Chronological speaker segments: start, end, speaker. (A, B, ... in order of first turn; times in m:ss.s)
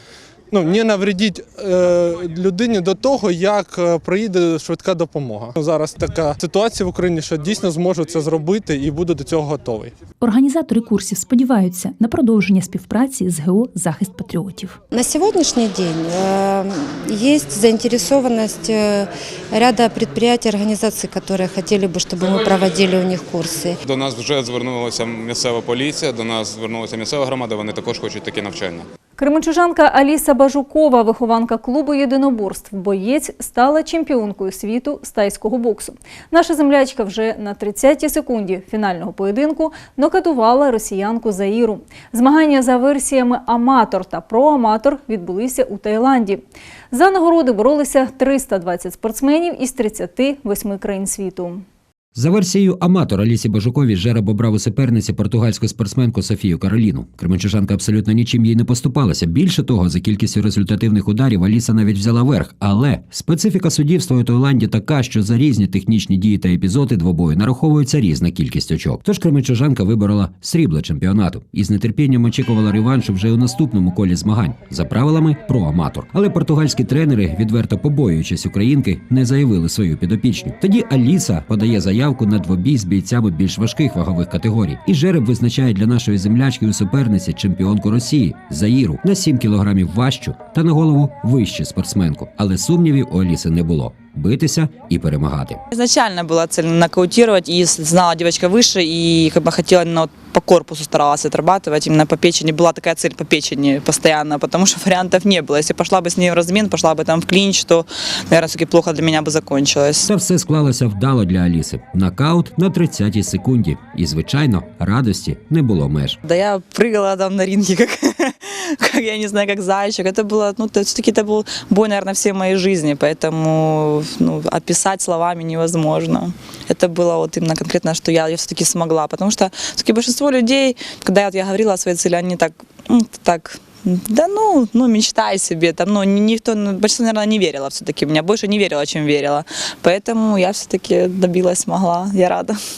0:00.5-0:09.9 A
0:10.2-0:14.8 B
0:14.9-0:23.8 C
0:23.8-0:28.8 D
0:29.2-0:51.6 E
0:52.1-1:35.6 F
1:35.7-1:50.1 G
1:50.0-1:56.2 F
1:56.2-2:22.6 G